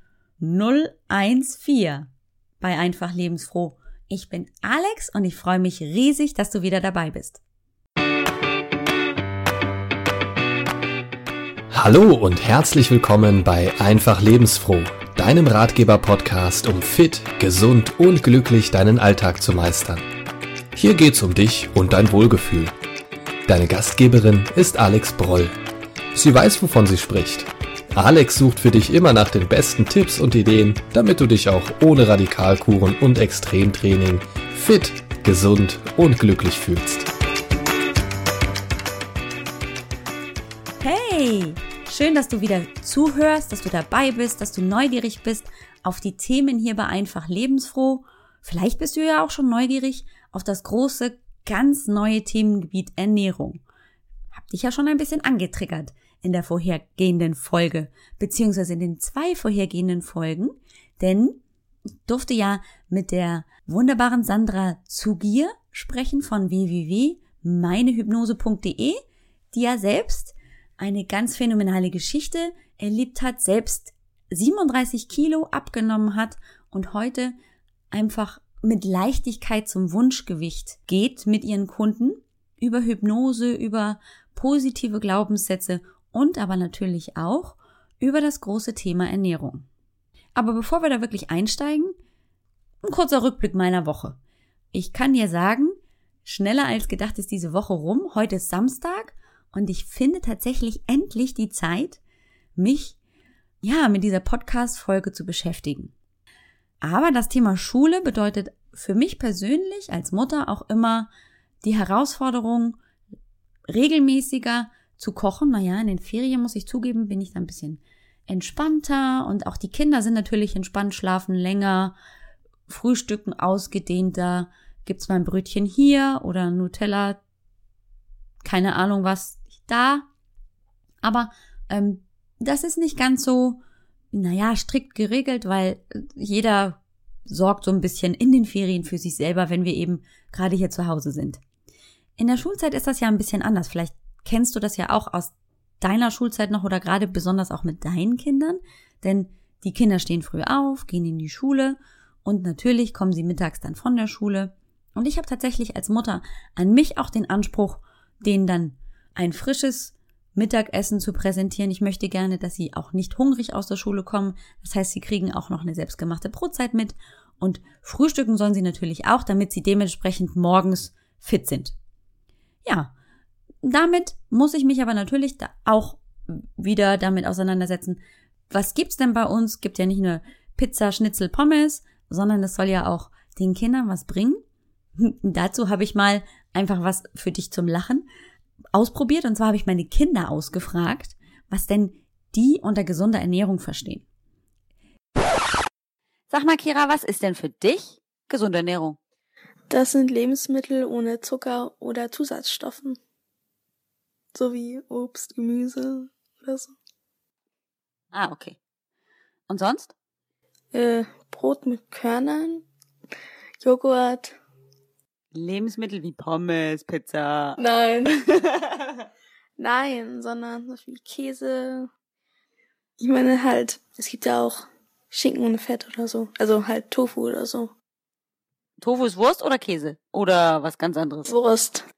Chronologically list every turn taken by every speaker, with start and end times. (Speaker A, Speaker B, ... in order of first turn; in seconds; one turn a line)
Speaker A: 0.4-2.1
Speaker A: 2.6-7.4
Speaker B: 11.7-20.0
Speaker B: 20.8-22.7
Speaker B: 23.5-25.5
Speaker B: 26.1-37.1
Speaker A: 40.8-53.6
Speaker A: 54.3-61.4
Speaker A: 62.1-69.0
Speaker A: 69.5-77.3
Speaker A: 77.9-89.7
Speaker A: 90.4-92.0
Speaker A: 92.8-94.2
Speaker A: 94.7-102.0
Speaker A: 102.6-103.0
Speaker A: 103.6-105.9
Speaker A: 106.8-111.1
Speaker A: 111.6-112.8
Speaker A: 113.7-121.9
Speaker A: 122.7-127.2
Speaker A: 128.4-130.1
Speaker A: 131.0-133.6
Speaker A: 134.1-141.4
Speaker A: 142.2-171.8
Speaker A: 172.7-172.9
Speaker A: 173.6-178.0
Speaker A: 178.5-184.4
Speaker A: 185.0-188.1
Speaker A: 188.7-194.1
Speaker A: 196.3-199.0
Speaker C: 199.7-203.0
Speaker C: 204.3-206.7
Speaker A: 208.1-208.6
Speaker A: 209.5-209.9
Speaker C: 210.7-212.7
Speaker C: 213.6-214.4
Speaker A: 215.3-217.6
Speaker C: 217.6-218.2
Speaker C: 219.6-221.9
Speaker C: 223.0-227.7
Speaker A: 228.8-231.3
Speaker C: 231.3-231.8